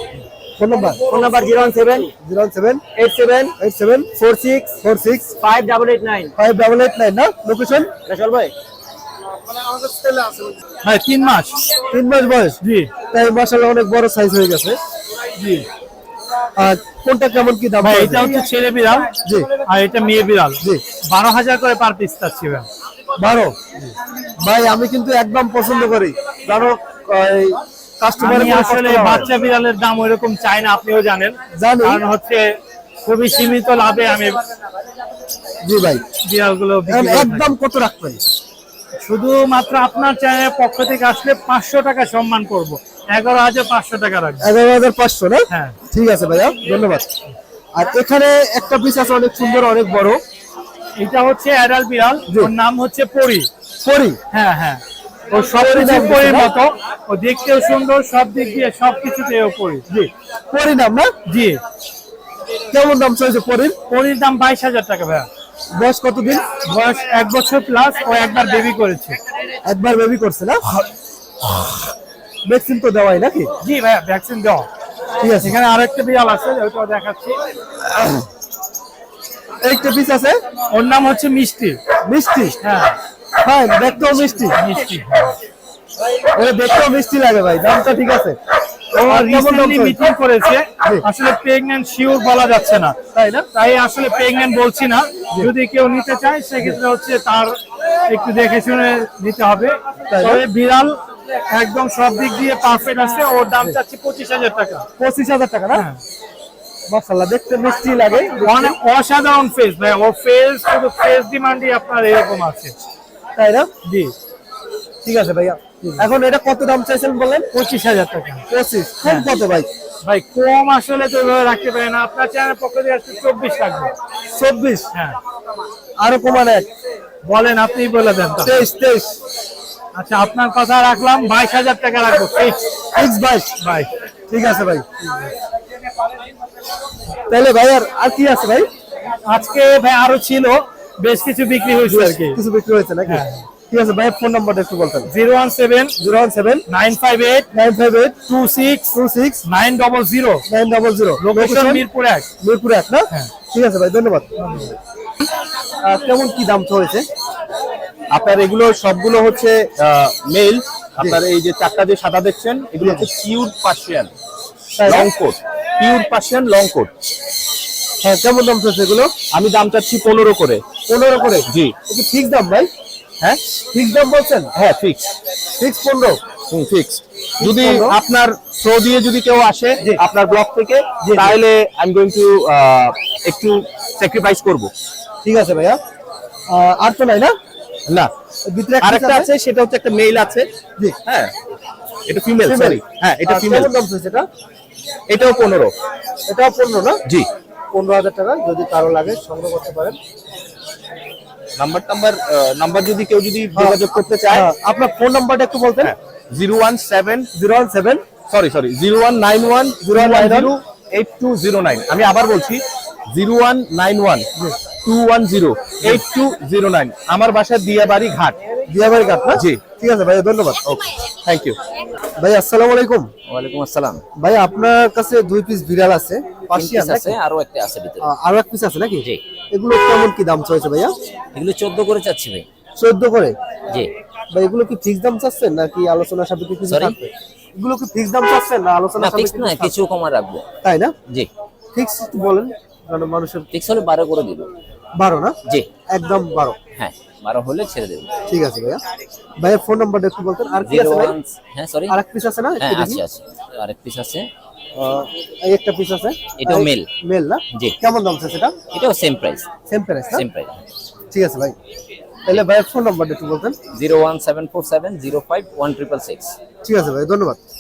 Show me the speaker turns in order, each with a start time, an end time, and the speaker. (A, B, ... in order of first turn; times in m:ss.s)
0:00.6-0:01.2 A
0:01.0-0:02.1 B
0:02.2-0:02.8 A
0:03.0-0:03.5 B
0:03.6-0:04.1 A
0:04.2-0:04.8 B
0:04.8-0:05.4 A
0:05.4-0:06.3 B
0:06.4-0:07.9 A
0:08.1-0:08.5 B
0:10.8-0:11.6 C
0:11.9-0:12.6 A
0:12.6-0:12.9 C
0:13.1-0:14.8 A
0:15.4-0:15.7 C
0:16.6-0:18.4 A
0:17.8-0:19.1 C
0:19.6-0:22.7 C
0:23.2-0:23.6 A
0:24.4-0:29.3 A
0:28.2-0:34.4 C
0:31.5-0:32.0 A
0:35.6-0:36.0 A
0:36.2-0:37.5 C
0:36.9-0:38.2 A
0:39.0-0:44.5 C
0:44.4-0:47.0 A
0:45.5-0:45.8 C
0:47.8-0:50.2 A
0:51.0-0:53.5 C
0:52.3-0:52.5 A
0:53.8-0:54.2 A
0:54.3-0:59.8 C
0:55.4-0:56.5 A
0:59.9-1:01.1 A
1:01.3-1:01.6 C
1:02.7-1:03.8 A
1:03.9-1:05.3 C
1:05.7-1:06.4 A
1:06.6-1:09.2 C
1:09.6-1:10.6 A
1:12.4-1:13.5 A
1:13.6-1:14.7 C
1:15.2-1:15.6 A
1:15.4-1:17.4 C
1:19.6-1:20.4 A
1:20.7-1:21.8 C
1:22.0-1:22.6 A
1:22.6-1:23.0 C
1:23.4-1:24.6 A
1:24.5-1:25.4 C
1:26.4-1:28.4 A
1:29.0-1:33.0 C
1:29.0-1:30.1 A
1:33.1-1:33.5 A
1:33.5-1:44.9 C
1:40.1-1:40.4 A
1:45.0-1:45.9 A
1:45.7-1:46.0 C
1:46.9-1:48.8 A
1:48.4-1:52.8 C
1:53.4-1:53.7 A
1:53.8-1:54.1 C
1:55.0-1:57.5 A
1:57.5-1:58.4 C
1:58.5-1:59.7 A
2:00.0-2:03.9 C
2:04.3-2:04.9 A
2:06.0-2:06.7 A
2:07.2-2:08.7 C
2:08.4-2:09.2 A
2:09.9-2:12.6 C
2:13.0-2:13.5 A
2:13.6-2:13.9 C
2:14.3-2:14.8 A
2:17.3-2:18.7 A
2:19.3-2:22.4 C
2:21.8-2:25.1 A
2:23.1-2:23.4 C
2:25.1-2:26.0 C
2:26.0-2:26.6 A
2:26.7-2:27.5 C
2:27.5-2:28.2 A
2:28.3-2:30.4 C
2:28.9-2:29.4 A
2:30.5-2:31.8 A
2:31.2-2:32.3 C
2:32.4-2:34.3 A
2:34.4-2:34.7 C
2:35.8-2:37.1 A
2:38.1-2:44.1 D
2:42.8-2:43.1 A
2:44.8-2:45.1 A
2:44.8-2:46.9 D
2:48.0-2:49.1 A
2:49.3-2:50.6 D
2:50.9-2:52.7 A
2:51.5-2:51.7 D
2:53.7-2:54.5 A
2:54.6-2:55.1 D
2:55.6-2:56.2 A
2:56.5-3:04.7 D
2:57.4-2:58.0 A
3:01.0-3:01.3 A
3:05.2-3:05.8 A
3:06.5-3:07.3 A
3:08.5-3:09.3 A
3:08.8-3:10.5 D
3:11.0-3:11.3 D
3:12.1-3:13.7 D
3:12.4-3:14.3 A
3:15.1-3:15.7 D
3:16.3-3:17.0 A
3:17.7-3:20.0 A
3:21.6-3:24.5 D
3:23.5-3:26.0 A
3:25.8-3:27.3 D
3:27.3-3:28.0 A
3:28.2-3:34.3 D
3:29.8-3:30.5 A
3:34.8-3:38.4 D
3:38.7-3:40.6 A
3:39.4-3:39.6 D
3:40.7-3:41.6 D
3:42.2-3:43.1 A
3:43.3-3:44.0 E
3:44.2-3:47.2 A
3:46.5-3:48.1 E
3:48.0-3:51.0 A
3:51.3-3:52.5 E
3:52.8-3:53.4 A
3:54.3-3:59.7 A
3:56.7-3:57.0 E
3:59.0-4:00.5 E
4:00.6-4:00.9 A
4:01.8-4:03.5 A
4:03.5-4:04.5 E
4:05.0-4:05.4 A
4:05.9-4:06.6 A
4:06.8-4:08.1 E
4:08.3-4:08.8 A
4:09.4-4:11.2 A
4:10.6-4:12.0 E
4:11.9-4:13.0 A
4:12.6-4:14.3 E
4:14.8-4:18.6 A
4:16.4-4:16.9 E
4:18.7-4:19.5 E
4:19.7-4:20.3 A
4:20.1-4:20.6 E
4:21.1-4:21.6 A
4:22.3-4:23.6 A
4:23.7-4:26.4 E
4:26.6-4:27.4 A